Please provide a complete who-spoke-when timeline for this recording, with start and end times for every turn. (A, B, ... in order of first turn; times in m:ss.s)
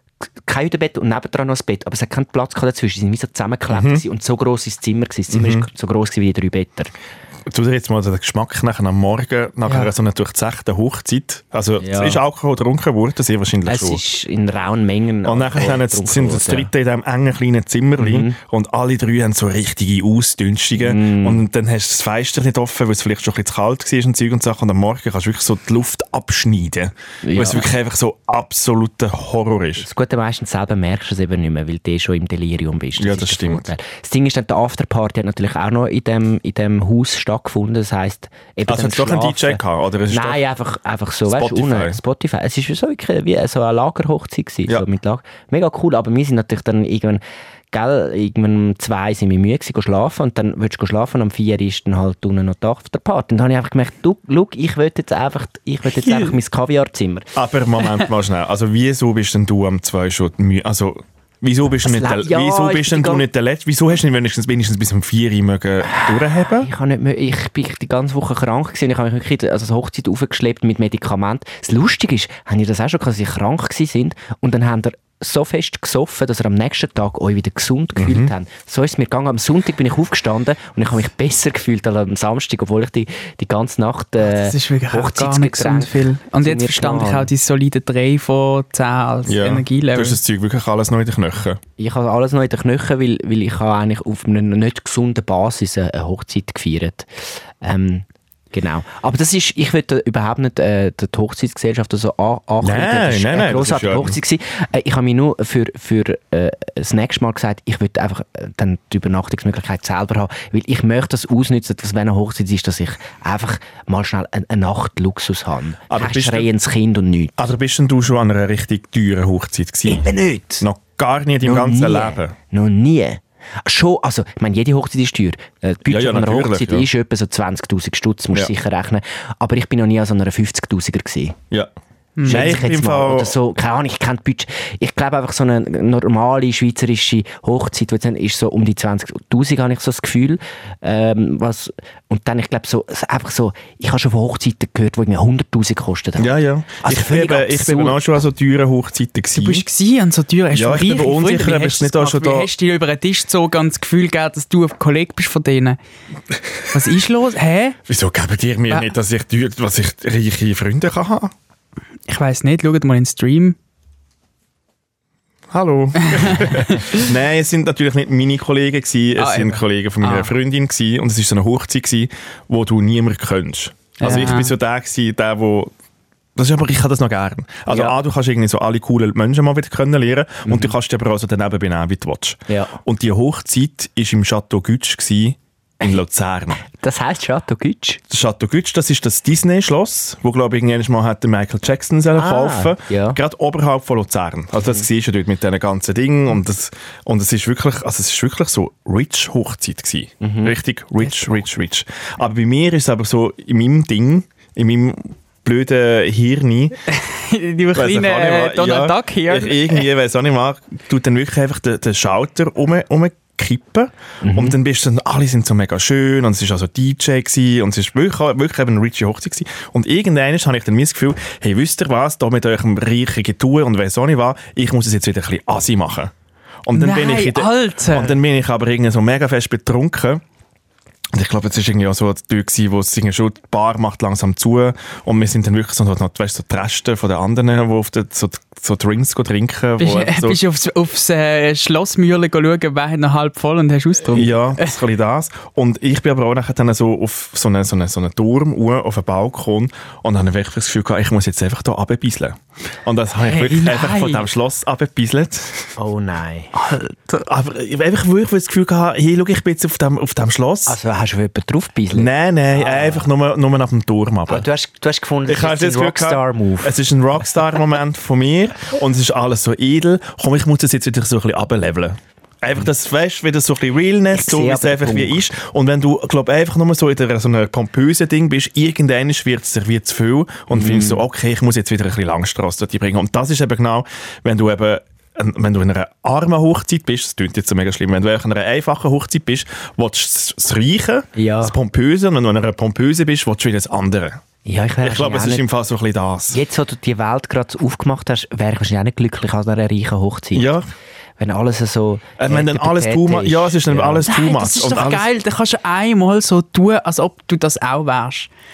0:00.4-0:06.9 A
0:03.7-0:04.0 B
0:05.3-0:05.7 B
0:07.5-0:14.0 B
0:11.8-0:12.2 A
0:13.7-0:16.7 A
0:15.2-0:29.9 B
0:18.0-0:18.4 A
0:20.8-0:21.4 A
0:27.2-0:27.7 A
0:29.8-0:47.2 A
0:33.0-0:33.7 B
0:38.7-0:40.4 B
0:41.3-0:42.0 B
0:47.7-0:57.3 A
0:57.4-1:06.7 B
1:01.8-1:03.3 A
1:06.0-1:27.3 A
1:18.0-1:18.3 B
1:24.2-1:30.2 C
1:29.3-1:31.6 B
1:31.8-1:57.5 A
1:42.6-1:44.2 B
1:55.9-1:56.5 B
1:57.4-2:00.1 B
1:59.9-2:00.6 A
2:00.6-2:02.4 B
2:01.4-2:11.4 A
2:05.9-2:06.9 B
2:12.2-2:12.5 C
2:12.2-2:28.0 A
2:12.3-2:13.3 B
2:26.2-2:29.6 B
2:29.3-2:35.8 C
2:30.5-2:32.5 B
2:36.7-2:37.8 C
2:37.9-2:41.3 B
2:42.1-2:43.6 C
2:45.5-2:55.7 B
2:46.1-2:47.0 C
2:49.2-2:50.3 C
2:54.0-2:54.6 C
2:56.4-3:06.6 B
2:57.7-2:58.0 A
3:00.5-3:00.8 A
3:02.5-3:02.8 A
3:06.6-3:08.0 A
3:08.1-3:26.8 B
3:12.2-3:13.2 A
3:20.2-3:20.5 A
3:26.9-3:29.9 C
3:27.8-3:46.1 B
3:34.2-3:34.6 A
3:46.7-3:50.2 B
3:46.7-3:48.2 C
3:51.1-4:00.4 B
3:59.8-4:04.8 C
4:04.1-4:15.7 B
4:13.2-4:14.3 C
4:15.8-4:16.5 A
4:16.6-4:17.2 C
4:17.2-4:20.8 B
4:20.7-4:23.1 A
4:21.9-4:24.5 B
4:24.3-4:26.8 A
4:25.3-4:54.2 B
4:34.1-4:35.2 A
4:40.5-4:41.0 A
4:51.2-4:51.6 A
4:54.4-4:55.4 A
4:54.8-4:56.4 B
4:56.3-5:00.5 A
5:00.3-5:00.7 B
5:01.2-5:04.0 A
5:02.2-5:05.1 B
5:04.0-5:08.3 C